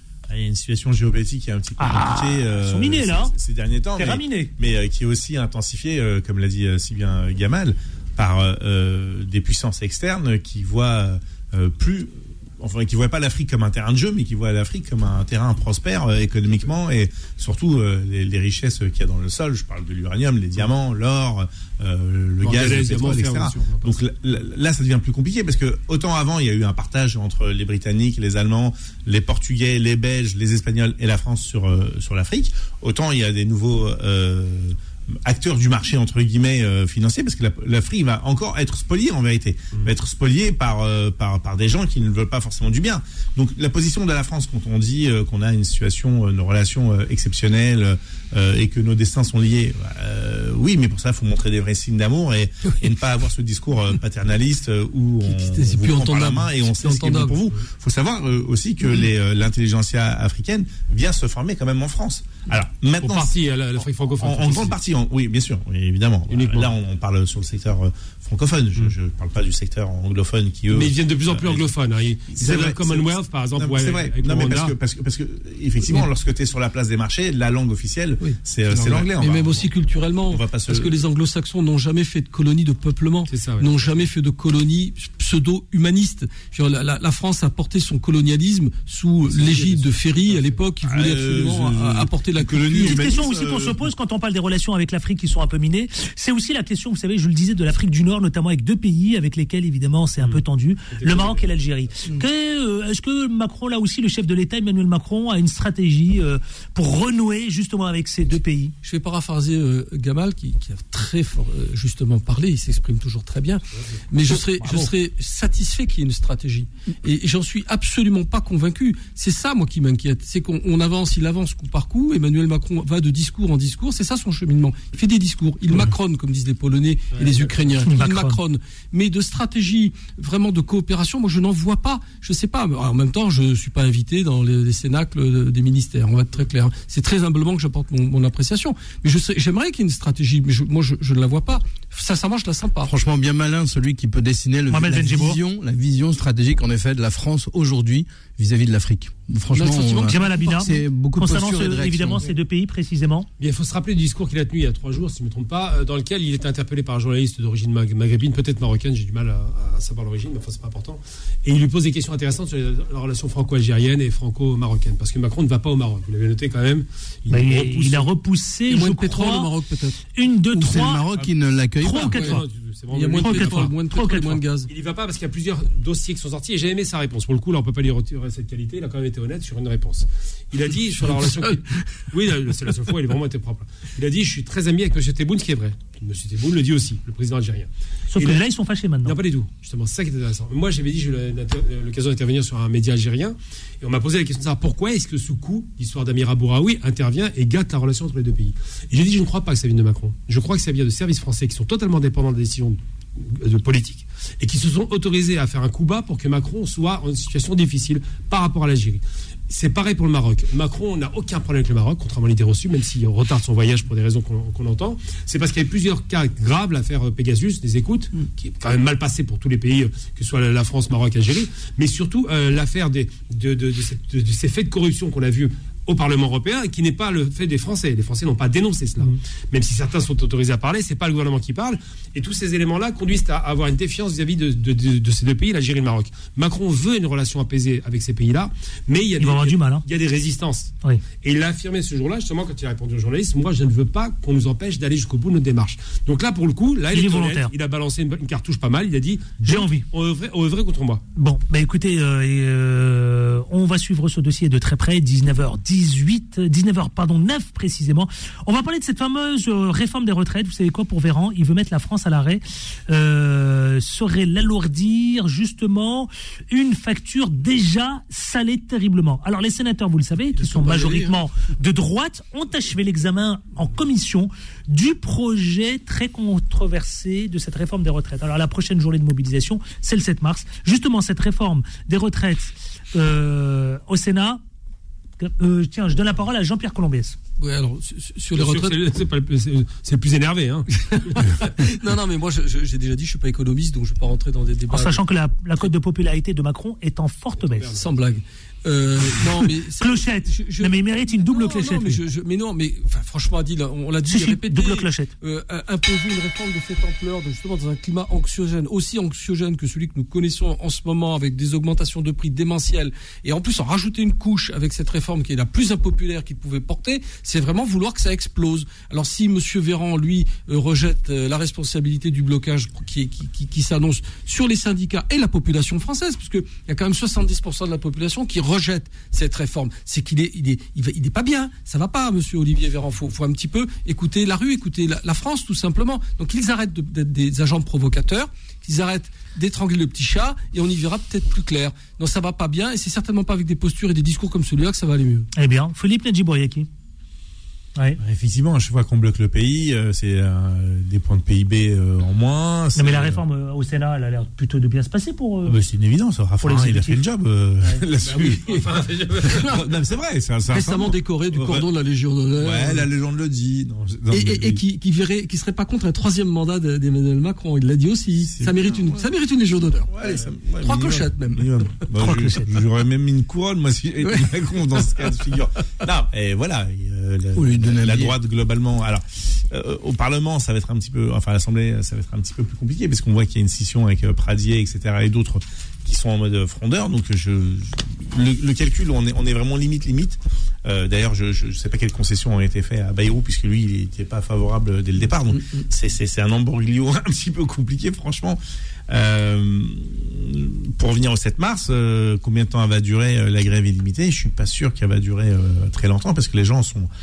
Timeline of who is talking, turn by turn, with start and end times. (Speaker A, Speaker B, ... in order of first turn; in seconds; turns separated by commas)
Speaker A: 0.3-71.7, Speaker B: 1.8-3.3, Speaker B: 4.0-4.5, Speaker C: 22.4-24.0, Speaker D: 55.3-57.4, Speaker C: 63.0-64.8, Speaker C: 66.3-66.7, Speaker C: 70.7-74.8, Speaker A: 72.3-79.7, Speaker D: 78.2-93.0, Speaker A: 80.3-81.0, Speaker C: 83.3-83.9, Speaker C: 89.3-90.6, Speaker A: 90.8-93.8, Speaker B: 92.8-108.7, Speaker C: 100.2-101.5, Speaker D: 108.8-142.9, Speaker B: 114.6-114.9, Speaker C: 127.1-128.0, Speaker B: 127.9-128.4, Speaker E: 142.8-152.3, Speaker B: 144.7-145.4, Speaker D: 149.5-150.8, Speaker B: 150.1-153.3, Speaker C: 153.4-168.1, Speaker B: 167.3-169.5, Speaker D: 168.7-170.0, Speaker B: 170.1-171.0, Speaker E: 170.5-172.3, Speaker B: 171.8-172.4, Speaker C: 171.9-173.7, Speaker D: 172.1-172.4, Speaker D: 172.9-174.7, Speaker B: 173.2-174.4, Speaker C: 174.7-188.5, Speaker D: 181.0-182.0, Speaker B: 188.1-189.2, Speaker C: 189.1-251.0, Speaker B: 239.2-239.8, Speaker B: 246.9-247.5, Speaker B: 249.4-249.8, Speaker B: 251.2-284.4, Speaker D: 270.4-271.2, Speaker B: 285.2-287.2, Speaker D: 287.4-288.9, Speaker C: 288.4-291.4, Speaker D: 290.9-295.0, Speaker B: 294.7-297.7, Speaker C: 297.4-297.9, Speaker D: 297.8-345.3, Speaker B: 299.8-302.0, Speaker B: 304.1-305.1, Speaker B: 345.3-346.7, Speaker A: 348.0-353.2, Speaker B: 352.8-355.6, Speaker A: 355.5-361.7, Speaker B: 356.4-357.0, Speaker C: 358.0-359.5, Speaker D: 360.5-362.9, Speaker A: 362.4-364.6, Speaker D: 364.1-371.7, Speaker A: 368.3-369.1, Speaker A: 369.9-406.9, Speaker B: 372.0-372.5, Speaker D: 374.0-375.4, Speaker E: 377.4-378.1, Speaker D: 395.3-395.7